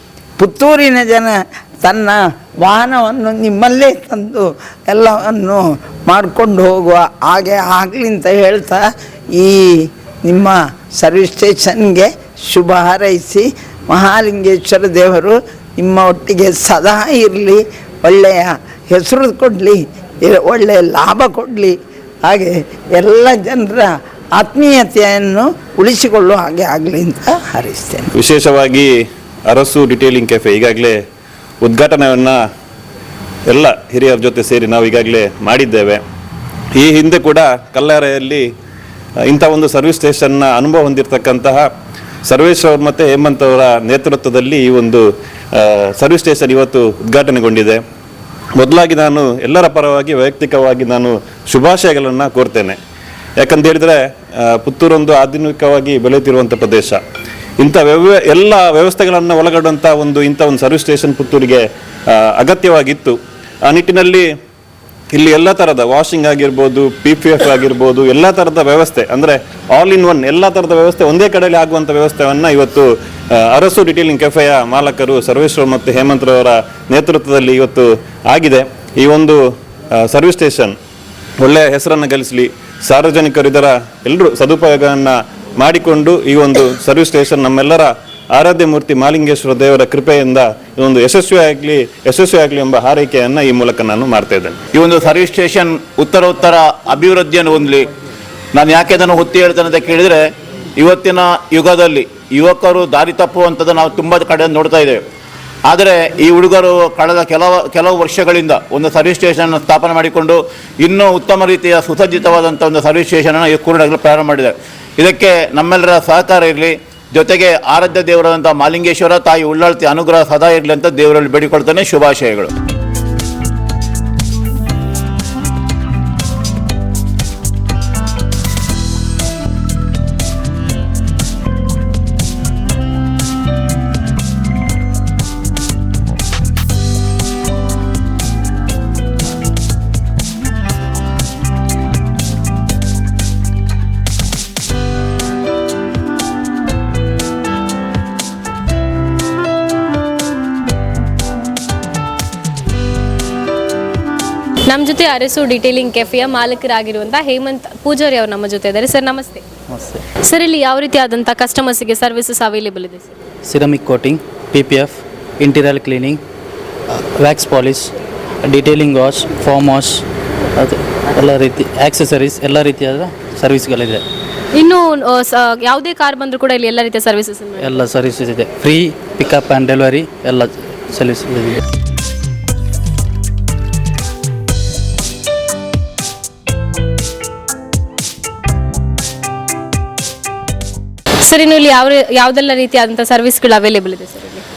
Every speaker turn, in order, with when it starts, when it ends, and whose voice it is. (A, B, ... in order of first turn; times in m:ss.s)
0:00.4-0:28.1 A
0:28.2-0:28.9 B
0:29.5-0:31.0 B
0:31.6-0:32.4 B
0:33.5-0:36.0 B
0:36.8-0:38.4 B
0:39.3-0:41.6 B
0:42.3-0:45.0 B
0:45.5-0:47.8 B
0:48.6-0:52.8 B
0:53.4-0:57.0 B
0:57.6-1:03.2 B
1:03.7-1:04.2 B
1:05.1-1:19.4 B
1:20.0-1:20.7 B
1:21.4-1:34.6 B
1:34.8-1:37.8 C
1:38.5-1:40.2 C
1:40.8-1:45.0 C
1:45.7-2:02.5 C
2:34.7-2:39.4 D
2:39.7-2:40.0 E
2:40.2-2:43.1 D
2:43.4-2:46.2 E
2:47.2-2:47.9 E
2:48.4-2:50.0 E
2:50.6-2:54.0 E
2:54.6-2:57.8 D
2:57.6-3:01.6 E
3:11.2-3:14.4 D